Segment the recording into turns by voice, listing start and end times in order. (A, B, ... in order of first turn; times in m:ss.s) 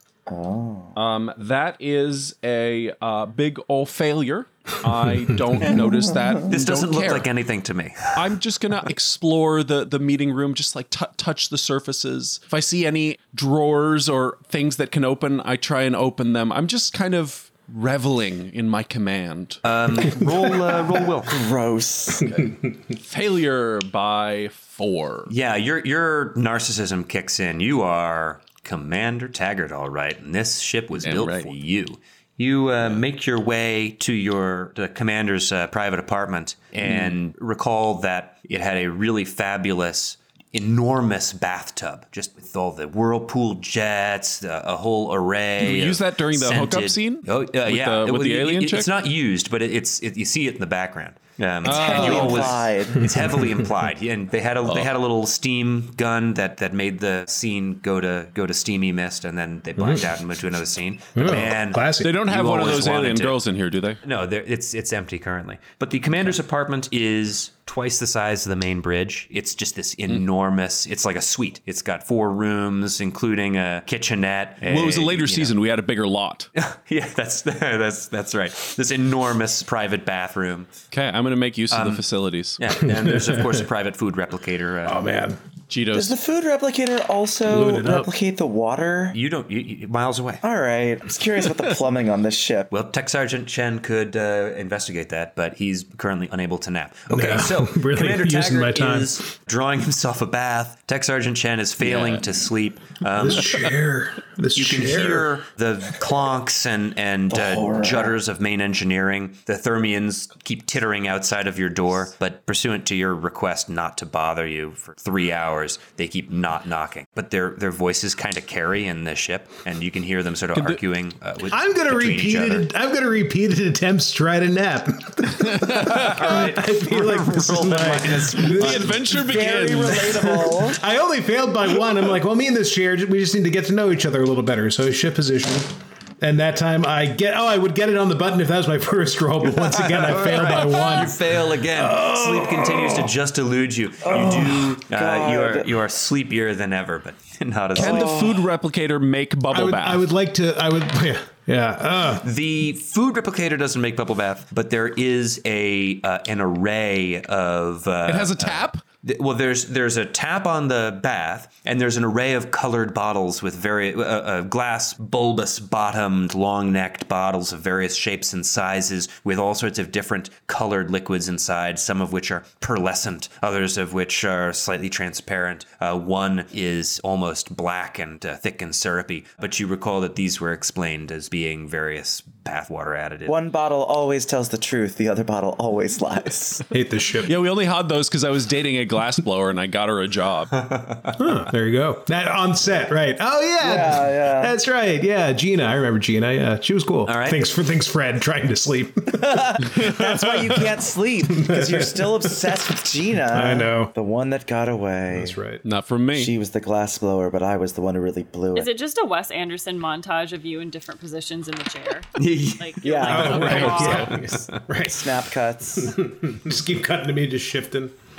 0:00.3-0:00.9 A
0:00.9-0:07.3 B
0:05.6-0:06.2 A
0:06.5-0:08.2 C
0:08.1-0:19.6 B
0:19.6-0:21.4 C
0:21.2-0:22.3 A
0:22.2-0:25.3 B
0:25.3-1:03.4 C
0:31.0-0:31.5 B
0:45.6-0:48.9 B
0:51.6-0:53.2 A
0:51.6-0:52.6 B
0:59.8-1:00.0 D
1:01.2-1:02.1 D
1:02.0-1:04.0 B
1:04.0-1:15.5 C
1:14.6-1:16.5 B
1:16.6-1:20.7 C
1:20.9-1:22.6 B
1:21.7-1:22.0 C
1:22.6-1:25.0 C
1:22.8-1:23.6 D
1:24.8-1:25.4 D
1:25.7-1:26.2 B
1:25.9-1:29.2 A
1:27.4-1:28.1 D
1:29.1-1:30.4 C
1:30.4-1:32.7 A
1:32.7-1:43.7 C
1:37.1-1:39.2 D
1:41.8-1:42.2 B
1:43.2-1:45.3 D
1:44.5-2:02.7 C
1:47.3-1:48.2 A
2:01.5-2:23.1 D
2:05.5-2:06.4 B
2:05.9-2:09.0 C
2:08.3-2:10.3 B
2:09.2-2:10.8 A
2:19.4-2:28.1 C
2:24.0-2:25.7 A
2:27.8-2:28.5 A
2:27.8-2:30.0 B
2:29.5-2:32.2 D
2:32.2-3:03.3 C
2:38.0-2:38.8 B
3:03.2-3:06.6 A
3:06.7-3:07.3 D
3:07.2-3:10.5 B
3:10.6-3:11.2 C
3:11.2-3:19.8 D
3:13.6-3:14.5 A
3:17.0-3:17.4 C
3:19.1-3:25.4 A
3:21.3-3:22.6 D
3:23.3-3:23.9 D
3:25.1-3:25.6 D
3:25.6-3:26.3 B
3:26.1-3:28.7 A
3:28.5-3:34.1 E
3:32.2-3:34.6 C
3:32.8-3:34.0 A
3:33.0-3:35.2 D
3:33.4-3:34.1 B
3:34.8-3:36.0 A
3:35.8-3:37.9 D